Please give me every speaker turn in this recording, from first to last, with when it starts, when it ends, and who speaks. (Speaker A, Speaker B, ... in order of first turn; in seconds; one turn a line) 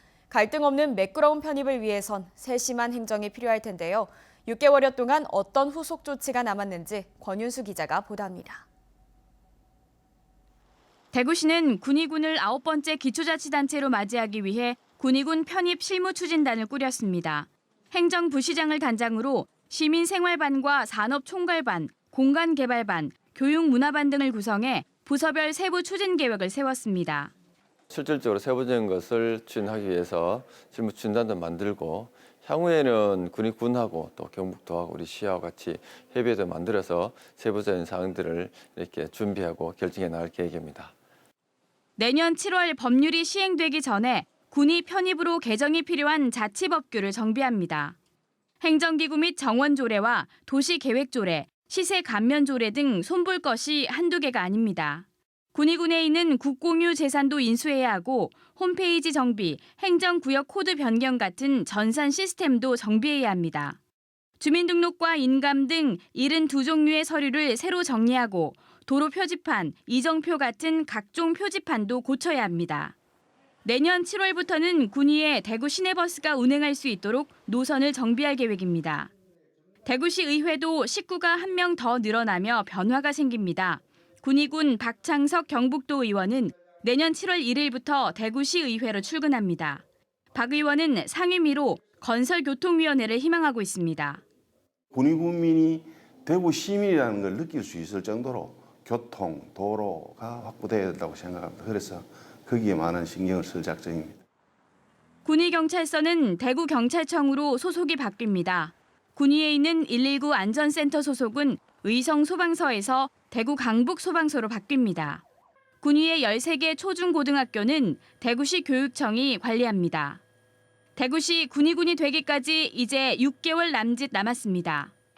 Speaker A: 0.3-8.7
Speaker B: 11.1-27.3
Speaker C: 27.9-40.9
Speaker B: 42.0-48.0
Speaker B: 48.6-63.8
Speaker B: 64.4-73.0
Speaker B: 73.7-79.1
Speaker B: 79.8-89.8
Speaker B: 90.3-94.2
Speaker D: 94.9-104.2
Speaker B: 105.2-115.2
Speaker B: 115.8-120.2
Speaker B: 121.0-124.9